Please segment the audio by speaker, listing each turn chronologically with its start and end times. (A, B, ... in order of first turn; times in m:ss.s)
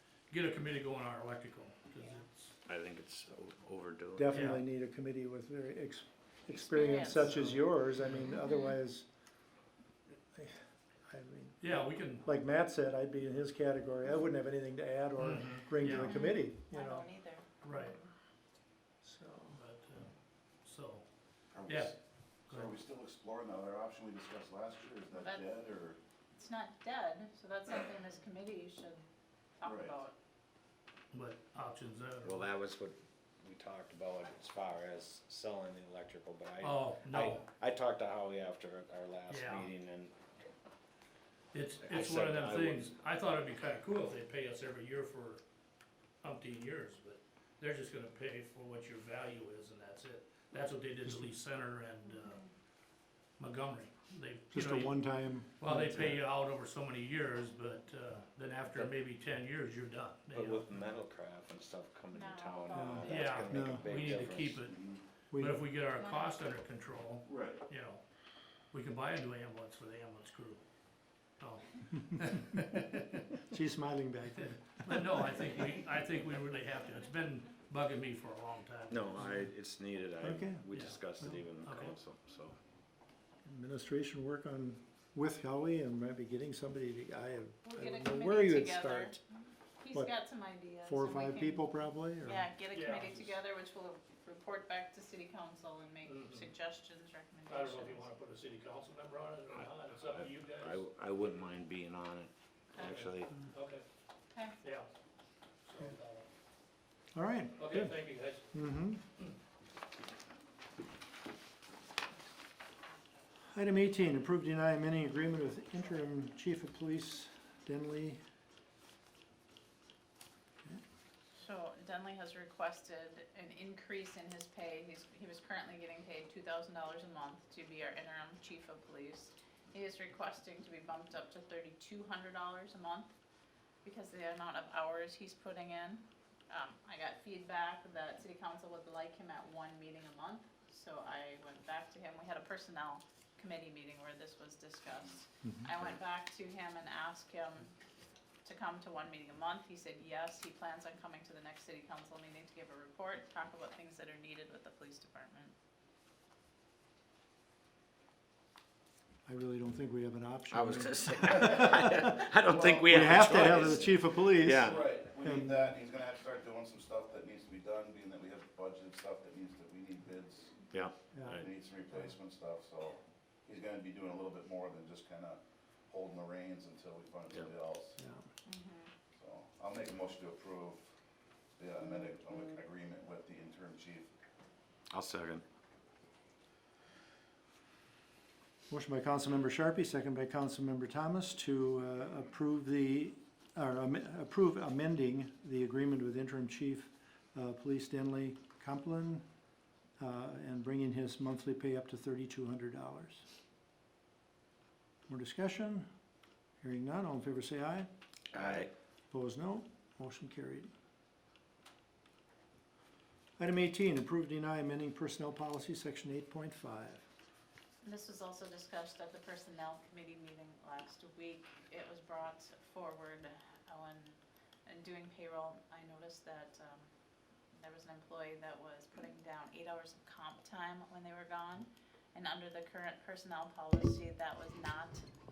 0:00.3-0:02.6 A
0:02.6-0:04.6 B
0:04.2-0:09.1 C
0:04.3-0:04.6 A
0:06.5-0:07.6 D
0:08.2-0:08.7 D
0:10.3-0:11.7 C
0:11.6-0:12.2 A
0:12.2-0:17.1 C
0:15.2-0:16.1 A
0:16.0-0:18.0 D
0:17.6-0:18.0 A
0:19.0-0:19.6 C
0:19.5-0:21.0 A
0:21.5-0:22.0 E
0:21.6-0:21.9 A
0:22.5-0:22.8 A
0:22.5-0:26.0 E
0:25.1-0:25.6 D
0:26.3-0:29.0 D
0:29.6-0:30.1 D
0:29.6-0:30.0 E
0:31.1-0:32.4 A
0:32.2-0:40.1 B
0:36.6-0:37.4 A
0:39.3-0:39.7 A
0:41.5-0:45.4 A
0:41.8-0:42.9 B
0:46.2-0:52.4 A
0:51.0-0:51.3 C
0:52.1-0:52.5 D
0:53.4-0:55.0 A
0:54.5-0:56.2 C
0:55.6-1:00.6 A
1:00.3-1:04.6 B
1:02.1-1:03.4 D
1:02.7-1:03.8 C
1:03.0-1:04.8 A
1:04.6-1:05.0 E
1:05.3-1:05.6 C
1:05.3-1:08.0 A
1:05.9-1:06.4 D
1:07.2-1:07.6 E
1:08.7-1:10.6 A
1:11.4-1:13.3 A
1:13.5-1:15.2 C
1:14.8-1:19.4 A
1:18.9-1:22.6 B
1:20.2-1:20.6 C
1:20.7-1:21.0 A
1:21.6-1:21.9 A
1:23.4-1:29.2 C
1:27.6-1:29.2 D
1:29.8-1:31.7 D
1:30.8-1:32.5 C
1:32.2-1:38.1 D
1:32.7-1:33.4 A
1:36.0-1:36.5 A
1:37.5-1:40.8 A
1:40.1-1:43.3 B
1:42.7-1:43.0 D
1:42.8-1:43.8 A
1:44.3-1:44.6 D
1:44.6-1:44.9 A
1:45.6-1:46.3 A
1:47.1-1:49.0 C
1:47.6-1:48.7 A
1:53.5-1:58.2 C
2:01.3-2:13.1 D
2:13.8-2:27.7 D
2:25.4-2:25.7 C
2:28.4-2:35.5 D
2:39.2-2:45.6 C
2:40.5-2:44.9 B
2:41.2-2:41.7 E
2:42.4-2:50.6 E
2:50.7-2:51.5 B
2:51.1-2:51.4 C
2:51.4-2:58.0 E
2:58.0-2:58.2 C
2:58.4-2:58.9 D
2:59.1-3:00.9 E
3:01.6-3:04.1 E
3:04.9-3:05.4 B
3:08.7-3:19.2 C
3:20.0-3:23.2 C
3:25.1-3:25.9 C
3:26.6-3:27.9 C
3:28.3-3:28.7 B
3:29.1-3:30.7 C
3:33.4-3:37.0 C
3:37.8-3:46.9 D
3:47.6-3:55.0 D